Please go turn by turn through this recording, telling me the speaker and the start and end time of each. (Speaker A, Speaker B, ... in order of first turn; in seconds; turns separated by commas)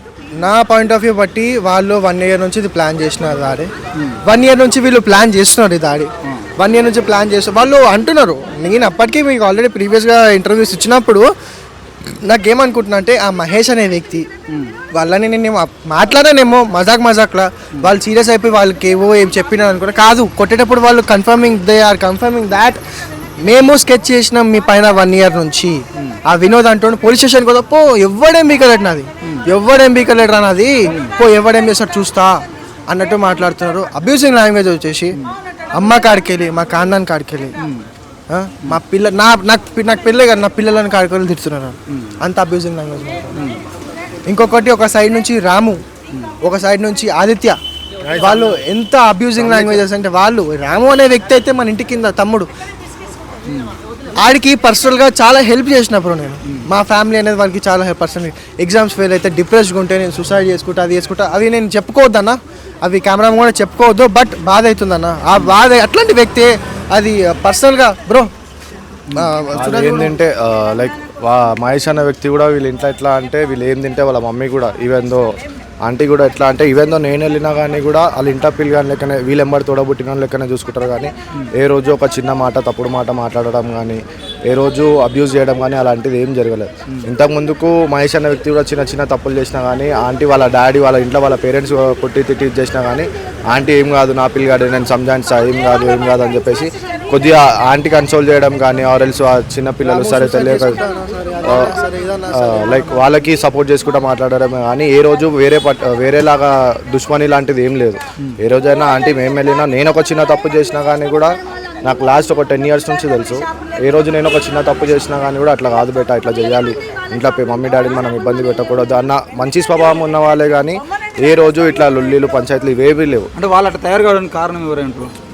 Speaker A: 0.4-3.7, Speaker A: 4.2-11.2, Speaker A: 12.2-14.3, Speaker A: 14.9-22.8, Speaker A: 23.4-35.2, Speaker A: 35.7-37.5, Speaker B: 37.6-37.9, Speaker A: 38.3-43.4, Speaker A: 44.3-45.8, Speaker A: 46.4-47.6, Speaker A: 48.1-52.5, Speaker B: 48.2-48.5, Speaker B: 49.4-49.8, Speaker B: 53.5-53.8, Speaker A: 54.2-68.3, Speaker A: 69.2-70.2, Speaker C: 69.6-75.3, Speaker C: 75.8-100.8, Speaker A: 99.9-103.1, Speaker C: 101.5-101.8, Speaker C: 102.3-123.3, Speaker B: 123.3-125.1